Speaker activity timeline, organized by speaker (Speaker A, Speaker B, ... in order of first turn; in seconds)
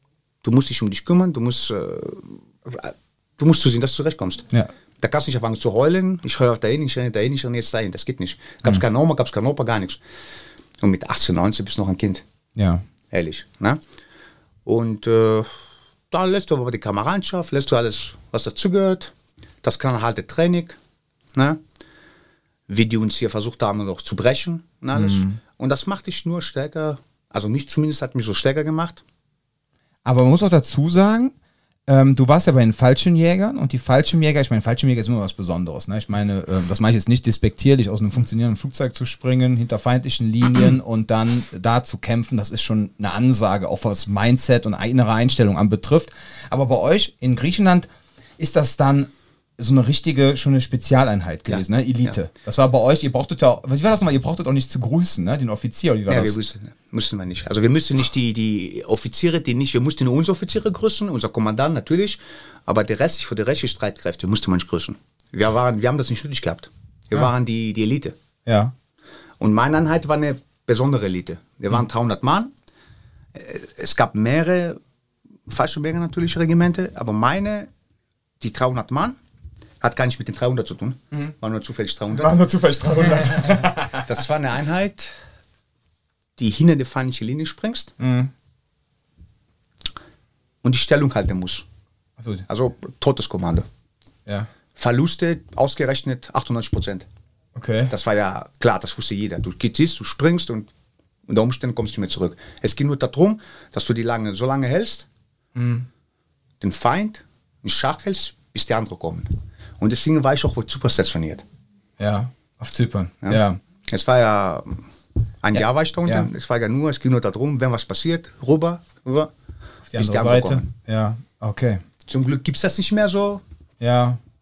Speaker A: 0.4-4.5, 5.0-10.0, 10.8-12.2, 13.1-13.8, 14.7-15.5, 16.1-19.1, 19.6-20.8, 22.7-29.0, 51.5-52.1, 56.1-68.1, 69.4-72.5, 73.3-74.8, 75.5-77.7, 78.4-79.2, 79.8-82.4, 83.2-85.1, 86.4-87.9, 90.6-91.7, 92.5-93.7, 94.8-97.0, 97.9-100.7, 101.3-105.0, 106.6-111.4, 113.2-114.8, 115.4-119.3, 119.9-120.7, 122.1-123.4
Speaker B: 12.6-12.8, 24.9-25.4, 30.0-31.3, 31.9-56.4, 68.5-68.7, 82.2-84.1, 88.0-88.3, 92.2-92.4, 97.5-97.9, 105.5-105.8, 112.0-113.6, 115.5-116.3, 119.9-121.8, 123.8-124.2